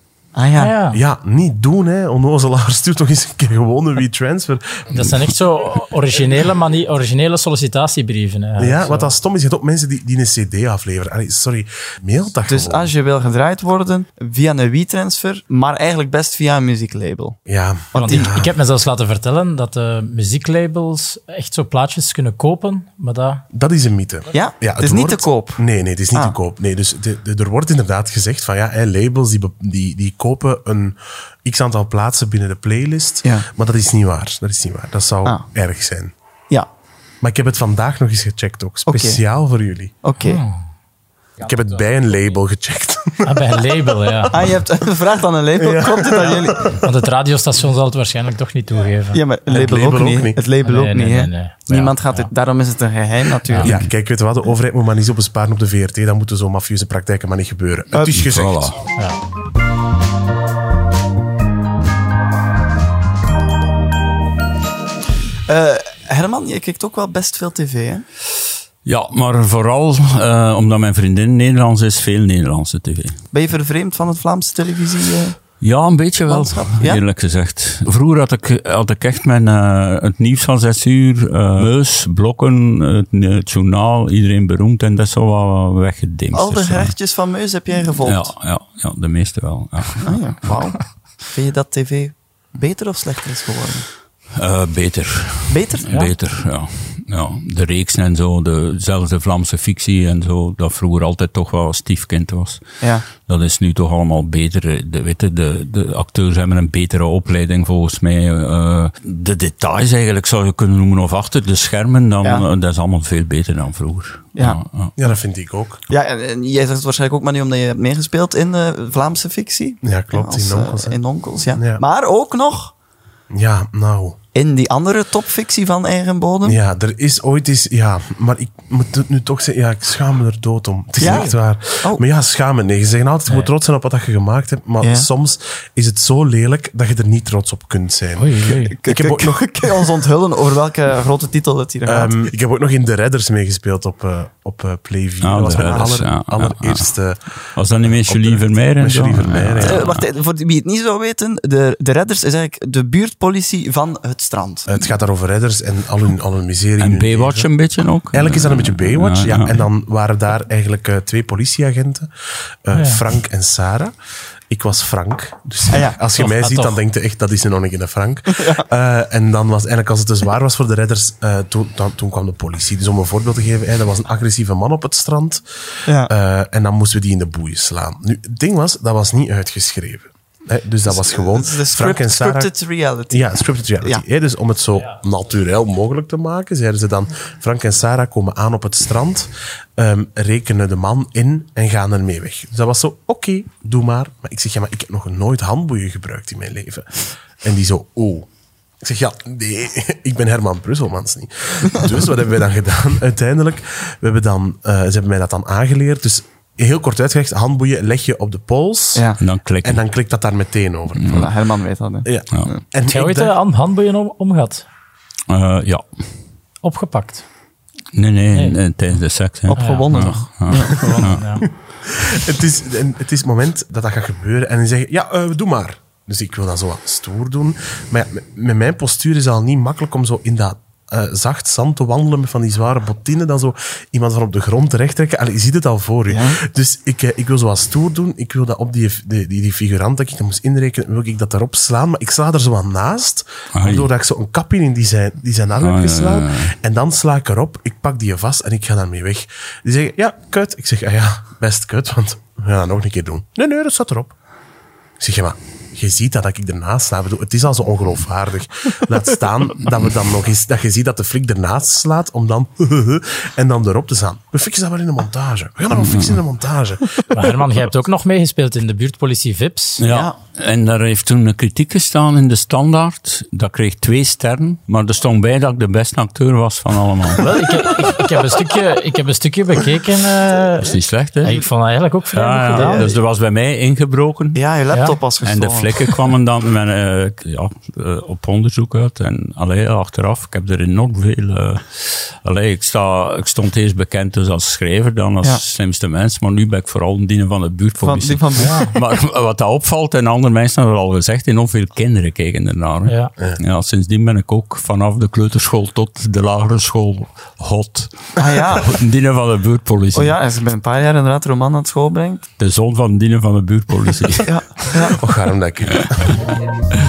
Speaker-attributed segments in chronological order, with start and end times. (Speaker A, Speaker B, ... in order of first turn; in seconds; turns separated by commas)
Speaker A: 0.3-0.7, Speaker B: 0.6-1.0, Speaker C: 0.9-5.1, Speaker B: 4.9-9.1, Speaker C: 8.6-12.9, Speaker A: 12.5-17.4, Speaker C: 17.5-18.5, Speaker A: 17.9-18.3, Speaker B: 17.9-23.4, Speaker C: 23.5-36.1, Speaker A: 24.3-25.6, Speaker C: 37.2-40.0, Speaker A: 38.9-39.2, Speaker A: 40.0-40.4, Speaker B: 40.2-40.6, Speaker C: 41.4-44.3, Speaker B: 43.2-44.4, Speaker A: 44.3-46.8, Speaker C: 45.6-46.8, Speaker B: 46.7-49.2, Speaker A: 49.1-53.8, Speaker C: 49.5-50.4, Speaker B: 50.6-52.3, Speaker C: 53.6-58.7, Speaker A: 57.9-58.2, Speaker D: 58.1-58.8, Speaker A: 65.5-68.0, Speaker D: 68.8-73.2, Speaker A: 73.3-75.4, Speaker D: 75.6-86.9, Speaker A: 76.3-77.0, Speaker A: 86.3-88.3, Speaker D: 88.0-90.6, Speaker A: 90.0-93.9, Speaker D: 94.3-114.9, Speaker A: 95.5-96.1, Speaker A: 102.8-103.1, Speaker C: 115.0-115.8, Speaker A: 115.9-122.7, Speaker C: 119.8-121.0, Speaker C: 121.5-121.8, Speaker C: 123.3-124.2, Speaker A: 124.3-126.6, Speaker C: 126.4-140.0, Speaker A: 131.0-132.0, Speaker B: 131.0-131.3, Speaker A: 134.8-135.1, Speaker B: 138.2-138.8, Speaker A: 138.7-142.2, Speaker C: 141.9-149.9, Speaker D: 145.2-146.9, Speaker D: 147.6-150.1, Speaker A: 149.6-154.7, Speaker C: 154.7-157.5, Speaker D: 156.8-159.6, Speaker C: 158.1-162.1, Speaker C: 162.6-163.9, Speaker B: 162.7-163.0, Speaker C: 164.5-182.5, Speaker A: 165.7-166.0, Speaker B: 166.2-166.8, Speaker A: 168.3-168.7, Speaker A: 175.9-176.1, Speaker A: 180.9-184.0, Speaker C: 183.1-196.9, Speaker C: 197.4-198.3, Speaker C: 198.8-211.3, Speaker A: 208.9-209.2, Speaker D: 209.2-209.8, Speaker D: 211.0-211.3, Speaker A: 211.1-212.6, Speaker C: 212.1-213.3, Speaker B: 212.8-214.7, Speaker D: 215.3-215.8, Speaker B: 216.6-217.2, Speaker D: 217.9-221.2, Speaker A: 219.5-221.2, Speaker B: 219.6-219.9, Speaker B: 220.5-221.5, Speaker C: 221.8-254.1, Speaker A: 236.1-236.4, Speaker D: 243.6-243.9, Speaker D: 245.6-246.5, Speaker C: 255.0-267.0, Speaker D: 265.8-266.2, Speaker B: 267.1-269.8, Speaker D: 269.8-277.4, Speaker A: 269.9-270.1, Speaker B: 277.2-282.9, Speaker D: 280.6-281.4, Speaker D: 282.1-284.4, Speaker A: 282.5-283.0, Speaker A: 284.4-286.0, Speaker D: 285.2-310.1, Speaker A: 297.8-298.7, Speaker B: 298.4-298.7, Speaker B: 302.9-303.1, Speaker A: 308.2-308.8, Speaker A: 309.9-312.3, Speaker D: 312.4-314.4, Speaker A: 314.2-315.0, Speaker C: 314.9-316.2